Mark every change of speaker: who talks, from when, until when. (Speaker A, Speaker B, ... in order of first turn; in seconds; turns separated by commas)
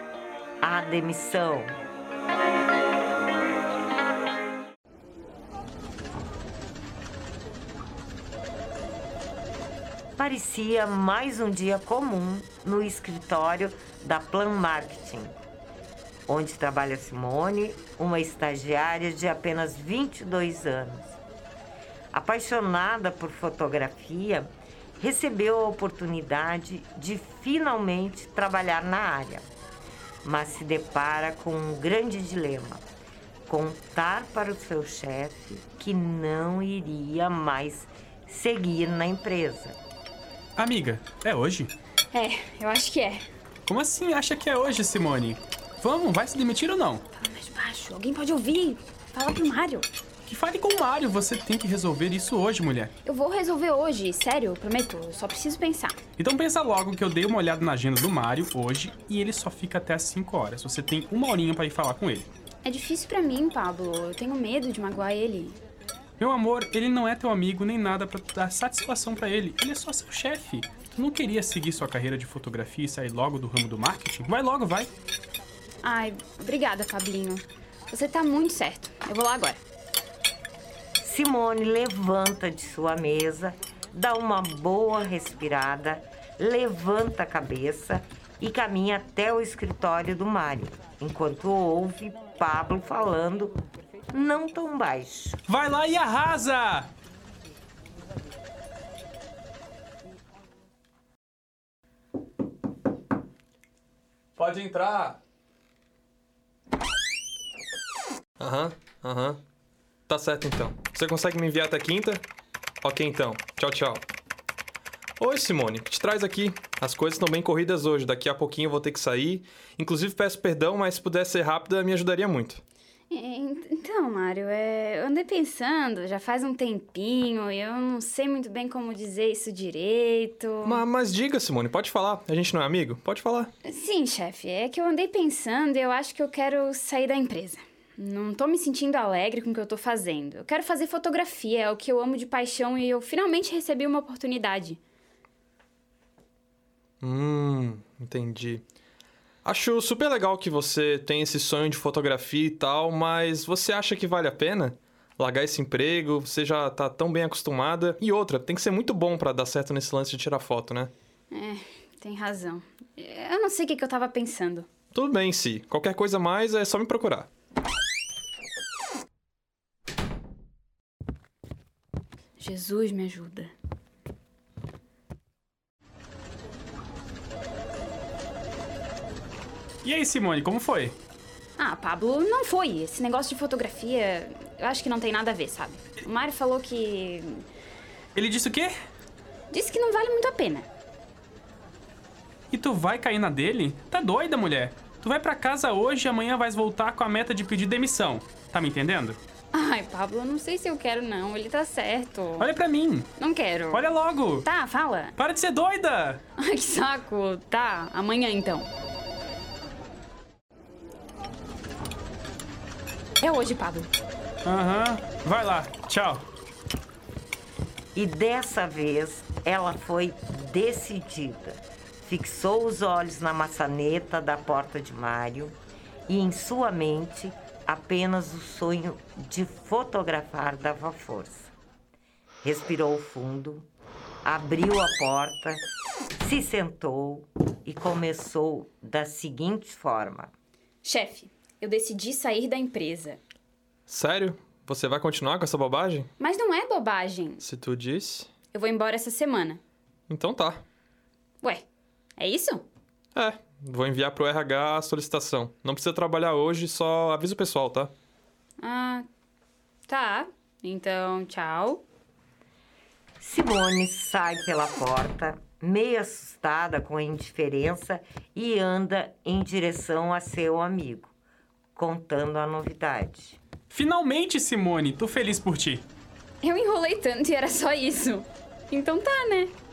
Speaker A: 0.6-1.7, Speaker A: 10.2-15.3, Speaker A: 16.3-21.2, Speaker A: 22.1-29.5, Speaker A: 30.2-32.8, Speaker A: 33.5-39.8, Speaker B: 40.6-41.7, Speaker C: 42.1-43.2, Speaker B: 43.7-47.0, Speaker C: 47.1-49.9, Speaker B: 50.2-52.9, Speaker C: 53.0-56.0, Speaker B: 56.2-62.3, Speaker C: 62.6-65.6, Speaker B: 66.2-74.9, Speaker C: 75.8-79.6, Speaker A: 81.0-93.5, Speaker A: 94.1-95.4, Speaker B: 95.5-96.9, Speaker D: 104.3-105.2, Speaker D: 108.4-109.4, Speaker D: 110.1-112.2, Speaker D: 112.8-114.0, Speaker D: 115.2-122.6, Speaker C: 123.1-130.7, Speaker D: 130.6-133.5, Speaker C: 133.7-144.8, Speaker D: 147.0-148.6, Speaker D: 149.4-160.9, Speaker C: 161.3-164.7, Speaker D: 164.9-167.3, Speaker C: 172.4-173.5, Speaker B: 179.8-180.9, Speaker C: 181.6-187.4, Speaker B: 188.1-188.7, Speaker C: 189.5-190.7, Speaker B: 192.5-199.2, Speaker C: 199.5-202.5, Speaker B: 202.4-203.1, Speaker C: 203.2-203.8, Speaker B: 203.7-206.2, Speaker C: 204.4-205.1, Speaker C: 206.3-208.7, Speaker C: 213.2-213.9, Speaker B: 214.4-216.2, Speaker A: 217.9-225.6, Speaker A: 226.1-231.5, Speaker A: 232.4-233.7, Speaker A: 234.2-235.6, Speaker A: 236.2-240.3, Speaker C: 240.8-243.2, Speaker D: 243.9-246.1, Speaker C: 246.2-247.4, Speaker D: 247.4-248.3, Speaker C: 248.5-249.6, Speaker D: 250.1-250.6, Speaker C: 252.2-252.6, Speaker D: 253.1-257.9, Speaker C: 258.6-259.0, Speaker C: 259.9-261.8, Speaker A: 263.2-271.1, Speaker A: 271.7-273.4, Speaker B: 273.7-275.9, Speaker C: 276.4-279.5